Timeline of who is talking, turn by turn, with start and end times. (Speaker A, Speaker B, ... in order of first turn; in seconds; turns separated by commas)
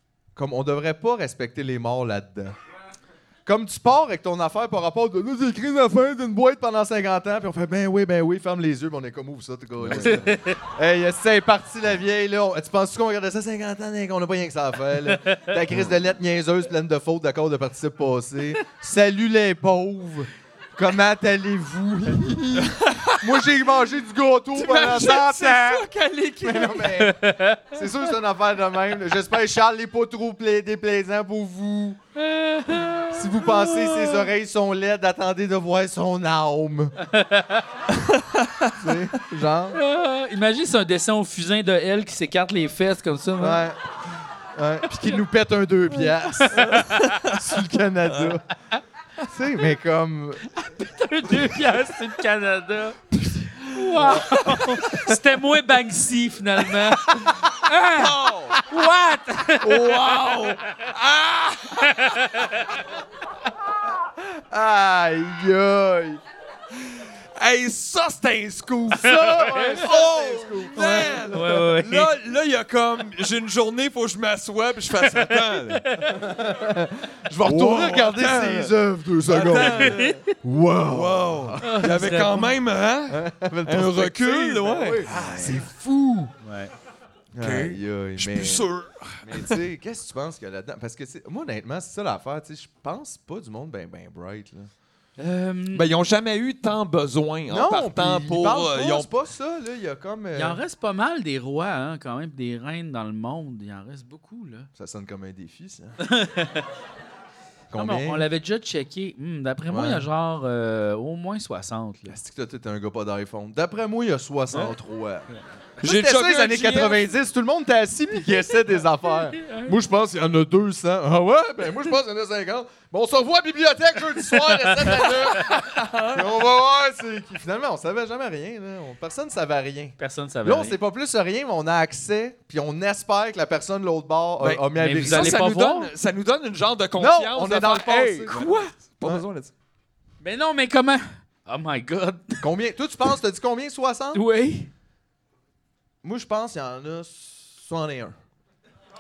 Speaker A: 0.4-2.5, Speaker A: 3.5-25.9, Speaker B: 9.8-10.2, Speaker C: 10.0-10.6, Speaker C: 15.1-15.5, Speaker B: 22.6-23.5, Speaker B: 24.6-27.0, Speaker A: 26.4-27.2, Speaker C: 27.0-27.8, Speaker A: 27.7-32.0, Speaker C: 32.1-34.3, Speaker A: 33.1-36.9, Speaker C: 37.1-37.7, Speaker B: 38.0-38.7, Speaker A: 38.8-39.8, Speaker C: 39.7-43.6, Speaker A: 43.4-43.8, Speaker A: 44.5-48.4, Speaker C: 46.2-47.2, Speaker B: 46.5-47.4, Speaker A: 49.2-50.5, Speaker C: 50.6-53.0, Speaker C: 53.5-60.5, Speaker B: 53.7-55.0, Speaker B: 57.9-58.6, Speaker B: 59.6-62.2, Speaker C: 61.8-62.7, Speaker A: 64.2-66.2, Speaker B: 66.8-75.8, Speaker A: 68.9-71.3, Speaker C: 69.0-69.8, Speaker C: 70.8-72.1, Speaker C: 75.1-76.2, Speaker A: 76.1-82.2, Speaker B: 77.4-78.7, Speaker B: 79.2-80.2, Speaker C: 79.6-80.3, Speaker B: 80.9-85.6, Speaker C: 81.6-82.5, Speaker A: 83.1-86.3, Speaker C: 85.1-85.5, Speaker C: 86.4-86.7, Speaker A: 87.3-88.7, Speaker B: 87.4-89.6, Speaker A: 89.2-94.7, Speaker C: 95.2-95.9, Speaker B: 95.7-99.1, Speaker A: 97.5-100.6, Speaker C: 100.3-104.7, Speaker A: 104.8-106.0, Speaker C: 106.0-106.7, Speaker A: 107.7-108.3, Speaker C: 107.7-112.2, Speaker A: 109.7-110.1, Speaker A: 112.1-115.3, Speaker B: 115.8-117.1, Speaker A: 115.8-135.5, Speaker C: 119.4-119.8, Speaker C: 124.5-125.6, Speaker B: 125.7-126.4, Speaker C: 130.0-130.8, Speaker B: 134.4-139.5, Speaker C: 134.8-135.9, Speaker A: 137.0-138.3, Speaker C: 138.3-138.7, Speaker C: 140.2-142.5, Speaker A: 142.4-144.2, Speaker C: 144.1-144.7, Speaker A: 146.0-148.1